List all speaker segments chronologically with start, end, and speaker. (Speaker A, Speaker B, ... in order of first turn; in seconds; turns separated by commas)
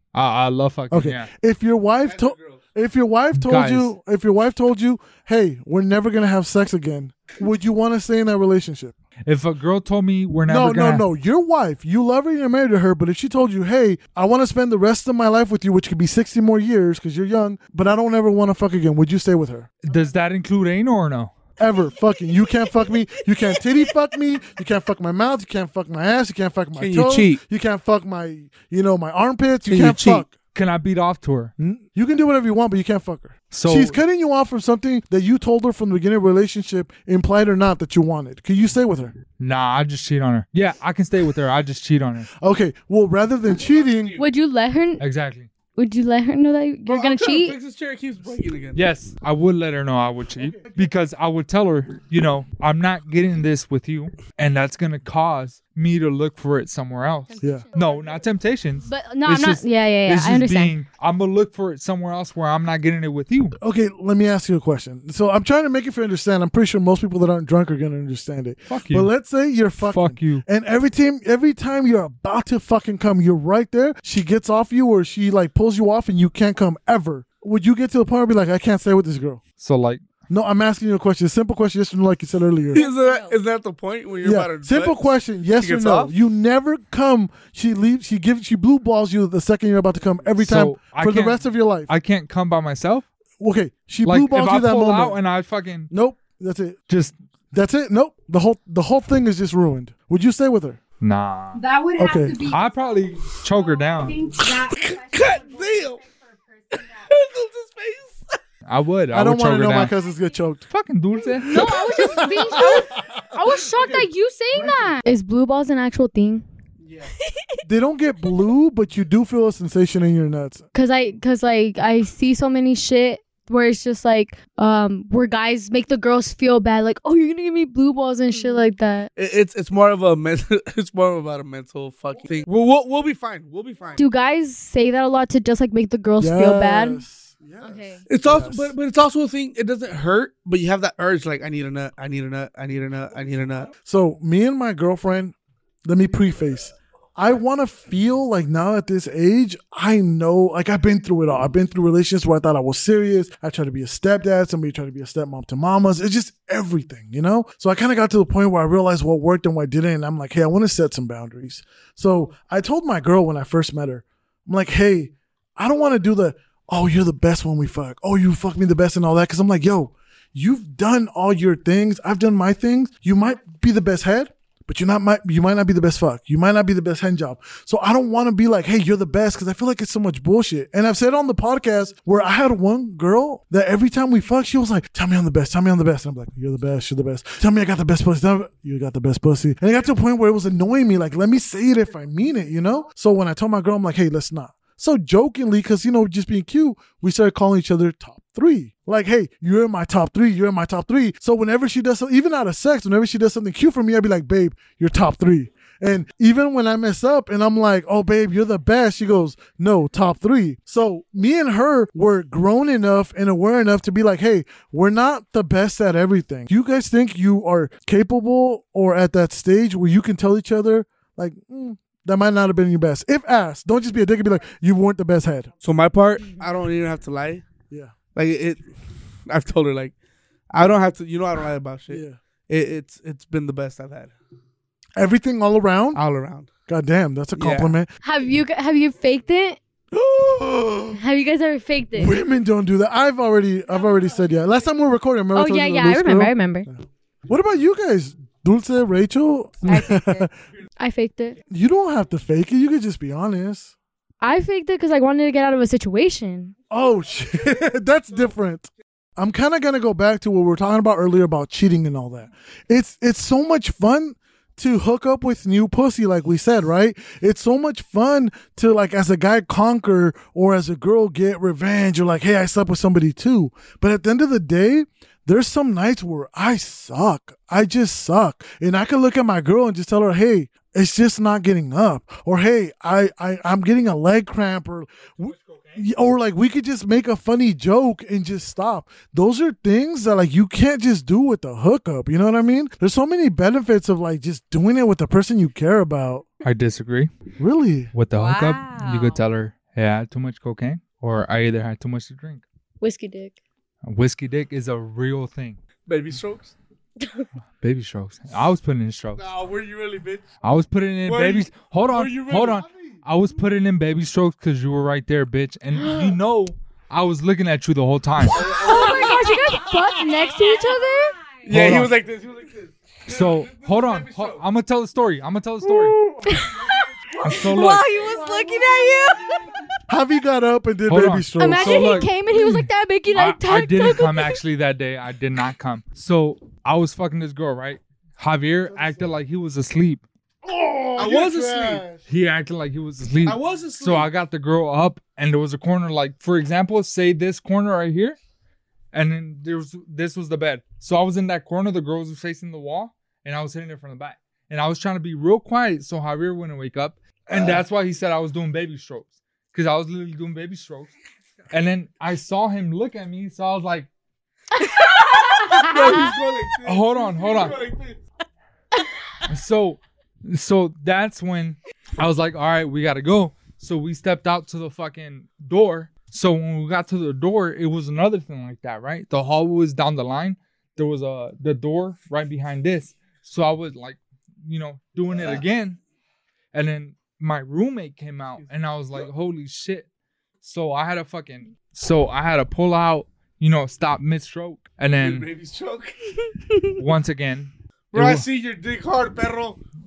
Speaker A: 0.1-1.3, Speaker B: 0.9-8.9, Speaker C: 2.1-2.6, Speaker A: 3.4-3.9, Speaker A: 9.3-11.1, Speaker B: 10.5-19.7, Speaker A: 19.9-21.4, Speaker B: 21.6-30.3, Speaker C: 26.8-27.4, Speaker C: 29.7-30.2, Speaker A: 30.5-31.5, Speaker B: 31.6-39.1, Speaker A: 33.5-34.0, Speaker A: 39.4-42.3, Speaker B: 42.4-44.2, Speaker D: 44.2-45.0, Speaker A: 45.0-45.5, Speaker D: 45.8-47.6, Speaker C: 46.9-48.8, Speaker A: 48.8-63.6, Speaker B: 50.4-50.8, Speaker B: 57.4-57.7, Speaker D: 58.9-60.7, Speaker B: 63.6-79.4, Speaker A: 68.7-69.1, Speaker A: 69.8-70.5, Speaker A: 79.6-80.1, Speaker B: 80.3-82.8, Speaker C: 82.7-85.0, Speaker B: 84.2-91.9, Speaker C: 85.6-86.1, Speaker A: 90.4-93.1, Speaker B: 93.4-95.2, Speaker A: 94.1-95.9, Speaker B: 95.9-96.8, Speaker A: 96.9-97.1, Speaker B: 97.5-100.8, Speaker A: 101.0-101.6, Speaker E: 101.5-102.6, Speaker B: 102.0-102.4, Speaker A: 102.5-104.2, Speaker E: 103.6-107.1, Speaker C: 104.5-106.0, Speaker C: 106.8-108.4, Speaker A: 108.7-110.0, Speaker B: 109.1-110.6, Speaker A: 110.7-111.8, Speaker D: 111.4-116.4, Speaker B: 112.0-112.8, Speaker B: 113.6-115.0, Speaker C: 116.8-117.1, Speaker B: 117.6-120.7, Speaker D: 120.7-129.1, Speaker C: 129.1-134.0, Speaker D: 134.0-137.0, Speaker B: 136.2-138.7, Speaker D: 137.6-138.1, Speaker C: 138.1-143.7, Speaker B: 143.8-225.5, Speaker C: 225.6-227.5, Speaker B: 227.7-228.0, Speaker C: 228.1-228.6, Speaker C: 229.2-230.0, Speaker C: 230.5-234.1, Speaker B: 231.9-232.2, Speaker B: 235.0-236.0, Speaker C: 235.9-236.5, Speaker B: 236.7-237.9, Speaker C: 237.4-237.8, Speaker D: 238.0-239.6, Speaker B: 239.9-241.0, Speaker D: 240.9-242.1, Speaker B: 242.0-250.3, Speaker D: 245.3-246.7, Speaker E: 249.7-250.3, Speaker D: 250.8-251.4, Speaker B: 251.5-253.7, Speaker D: 254.2-256.5, Speaker B: 256.7-296.3, Speaker A: 296.4-297.1, Speaker B: 297.4-297.9, Speaker A: 297.9-302.4, Speaker E: 298.1-299.2, Speaker D: 302.8-303.4, Speaker A: 303.8-305.6, Speaker C: 305.9-306.6, Speaker A: 307.6-309.3, Speaker C: 309.2-310.3, Speaker A: 310.4-318.7, Speaker C: 311.1-312.6, Speaker D: 315.8-316.1, Speaker C: 318.3-319.4, Speaker D: 318.4-321.2, Speaker C: 321.5-324.4, Speaker A: 321.5-321.9, Speaker A: 323.1-326.0, Speaker D: 326.3-326.8, Speaker A: 327.2-327.9, Speaker E: 327.3-329.6, Speaker B: 329.9-332.1, Speaker A: 330.9-340.0, Speaker D: 331.4-334.4, Speaker B: 340.4-342.0, Speaker C: 341.0-341.9, Speaker A: 342.1-348.2, Speaker C: 343.2-344.1, Speaker A: 348.9-360.9, Speaker C: 357.3-357.6, Speaker A: 361.5-363.9, Speaker D: 364.6-365.7, Speaker C: 365.4-368.0, Speaker A: 366.6-367.6, Speaker A: 369.3-385.8, Speaker A: 386.5-389.9, Speaker A: 390.4-395.3, Speaker C: 395.0-396.2, Speaker A: 396.8-398.3, Speaker C: 397.9-399.6